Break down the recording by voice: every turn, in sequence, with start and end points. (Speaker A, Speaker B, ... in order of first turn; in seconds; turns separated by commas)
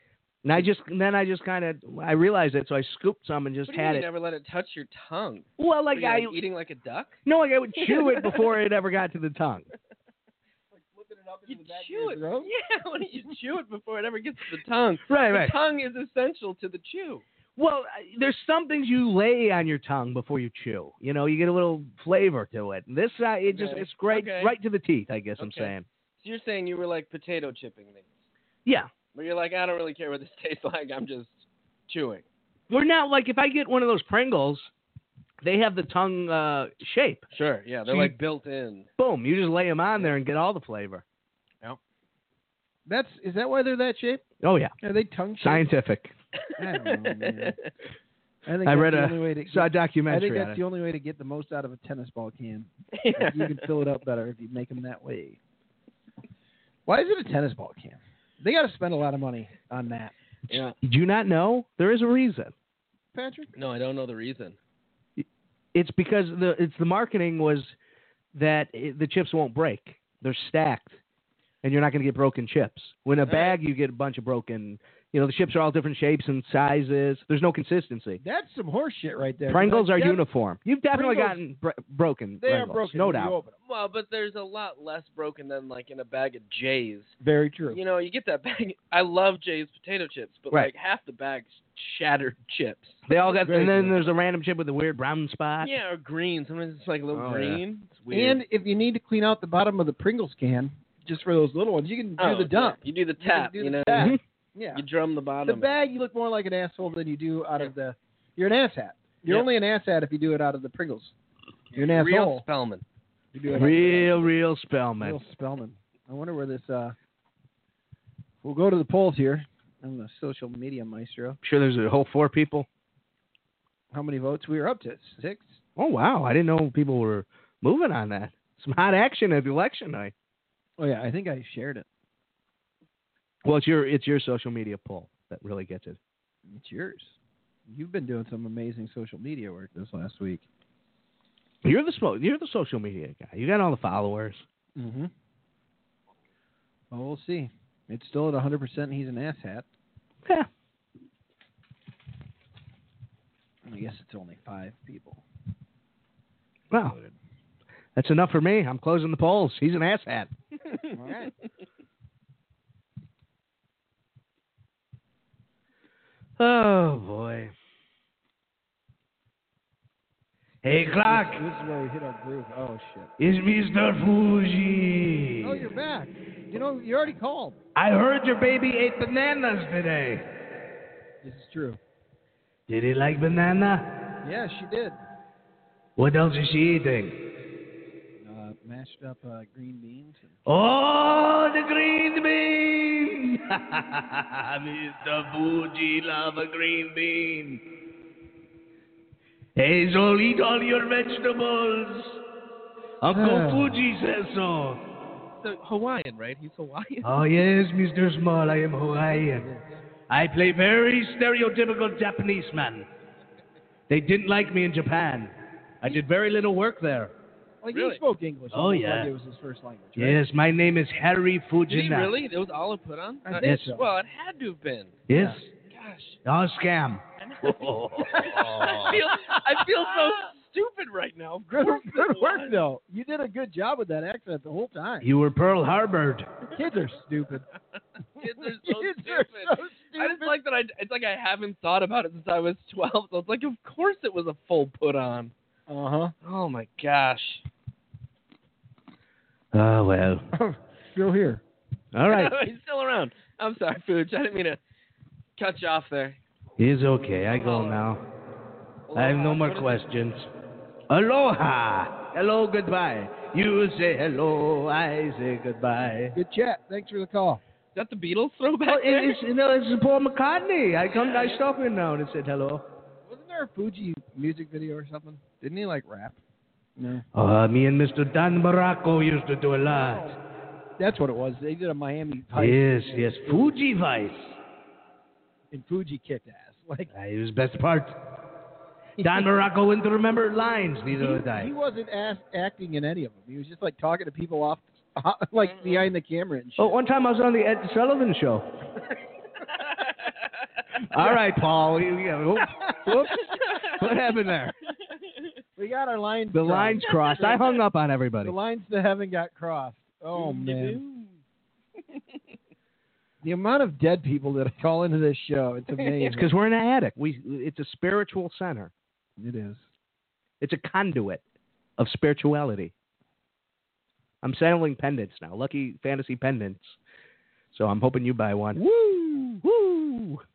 Speaker A: 0.4-4.1, Speaker B: 3.6-7.2, Speaker A: 5.6-6.4, Speaker A: 7.2-9.7, Speaker B: 7.8-8.4, Speaker C: 10.7-12.5, Speaker B: 11.5-17.2, Speaker A: 15.1-15.5, Speaker A: 17.6-25.9, Speaker B: 23.5-24.6, Speaker B: 25.4-28.1, Speaker B: 29.1-32.2, Speaker A: 32.7-34.7, Speaker A: 35.4-37.2, Speaker B: 37.3-38.9, Speaker A: 37.9-38.2, Speaker A: 39.0-41.0, Speaker C: 42.9-44.2, Speaker A: 44.4-44.7, Speaker C: 44.8-45.7, Speaker A: 45.4-46.1, Speaker B: 46.5-47.6, Speaker C: 46.6-47.5, Speaker C: 48.4-55.4, Speaker A: 48.6-50.6, Speaker B: 52.9-53.7, Speaker C: 56.9-60.1, Speaker B: 60.5-60.8, Speaker A: 60.5-62.5, Speaker C: 63.1-63.5, Speaker B: 63.5-64.6, Speaker A: 65.2-67.7, Speaker A: 68.3-70.9, Speaker A: 71.6-78.2, Speaker B: 73.2-73.6, Speaker C: 78.2-80.3, Speaker A: 79.5-83.3, Speaker C: 80.9-81.6, Speaker C: 82.4-83.5, Speaker B: 83.6-87.2, Speaker C: 87.2-87.8, Speaker B: 87.7-93.0, Speaker A: 93.1-95.7, Speaker C: 93.2-94.0, Speaker B: 95.6-98.4, Speaker A: 97.1-97.6, Speaker C: 97.2-97.5, Speaker C: 98.1-104.8, Speaker B: 102.2-104.2, Speaker B: 104.7-105.7, Speaker C: 105.4-111.1, Speaker B: 111.7-112.8, Speaker C: 111.7-112.4, Speaker C: 113.3-114.3, Speaker A: 113.5-115.2, Speaker C: 115.0-117.0, Speaker C: 118.4-121.4, Speaker A: 121.4-122.7, Speaker C: 123.9-125.6, Speaker A: 125.8-130.1, Speaker C: 130.8-131.9, Speaker A: 133.4-136.0, Speaker C: 136.5-137.1, Speaker C: 137.7-140.4, Speaker A: 141.6-144.4, Speaker C: 144.8-145.1, Speaker C: 146.9-149.7, Speaker C: 153.6-155.2, Speaker C: 156.8-157.1, Speaker A: 157.9-160.3, Speaker C: 160.9-161.3, Speaker A: 166.4-167.5, Speaker A: 170.6-171.4, Speaker C: 170.6-173.1, Speaker A: 173.2-175.6, Speaker C: 175.4-177.6, Speaker A: 177.8-180.2, Speaker C: 181.2-181.8, Speaker A: 182.7-183.8, Speaker C: 184.2-185.0, Speaker A: 186.0-187.1, Speaker C: 188.2-190.4, Speaker A: 190.4-197.6, Speaker A: 199.6-202.2, Speaker A: 203.0-204.8, Speaker C: 203.1-203.8, Speaker B: 205.4-207.1, Speaker A: 207.0-209.5, Speaker C: 209.3-209.7, Speaker A: 210.1-212.9, Speaker A: 213.9-217.1, Speaker C: 217.6-220.2, Speaker B: 217.7-218.0, Speaker A: 218.5-219.1, Speaker A: 220.0-222.1, Speaker B: 221.7-225.0, Speaker C: 223.2-223.8, Speaker A: 223.4-223.8, Speaker A: 225.1-225.5, Speaker C: 225.1-225.4, Speaker B: 225.7-226.2, Speaker A: 226.2-229.0, Speaker B: 227.2-232.6, Speaker C: 228.2-229.8, Speaker C: 231.5-235.1, Speaker A: 235.0-236.3, Speaker C: 236.5-237.4, Speaker B: 238.2-245.3, Speaker C: 238.2-240.4, Speaker C: 245.7-246.1, Speaker B: 246.2-247.4, Speaker A: 249.5-250.2, Speaker C: 250.3-251.4, Speaker A: 251.9-252.5, Speaker B: 252.1-254.6, Speaker B: 255.4-256.2, Speaker A: 256.6-258.0, Speaker B: 257.3-257.8, Speaker B: 258.9-259.9, Speaker A: 258.9-260.3, Speaker A: 260.9-266.1, Speaker C: 266.1-267.4, Speaker B: 267.7-269.2, Speaker A: 268.7-272.6, Speaker C: 273.1-276.2, Speaker C: 276.8-277.0, Speaker A: 277.1-280.1, Speaker C: 279.7-280.1, Speaker C: 280.8-283.6, Speaker A: 282.4-284.4, Speaker C: 285.5-286.9, Speaker A: 286.9-288.0, Speaker C: 289.0-289.2, Speaker A: 289.0-291.5, Speaker C: 290.9-296.8, Speaker B: 295.4-295.8, Speaker A: 296.6-298.4, Speaker B: 299.6-300.1, Speaker A: 300.8-304.6, Speaker C: 302.4-303.1, Speaker C: 305.6-307.4, Speaker A: 306.3-308.3, Speaker B: 307.0-307.5, Speaker C: 308.2-310.8, Speaker B: 310.1-311.1, Speaker C: 313.2-316.3, Speaker B: 315.8-316.1, Speaker A: 316.1-318.7, Speaker C: 319.2-319.6, Speaker A: 320.4-321.2, Speaker A: 321.8-322.7, Speaker A: 324.2-326.8, Speaker A: 327.5-330.2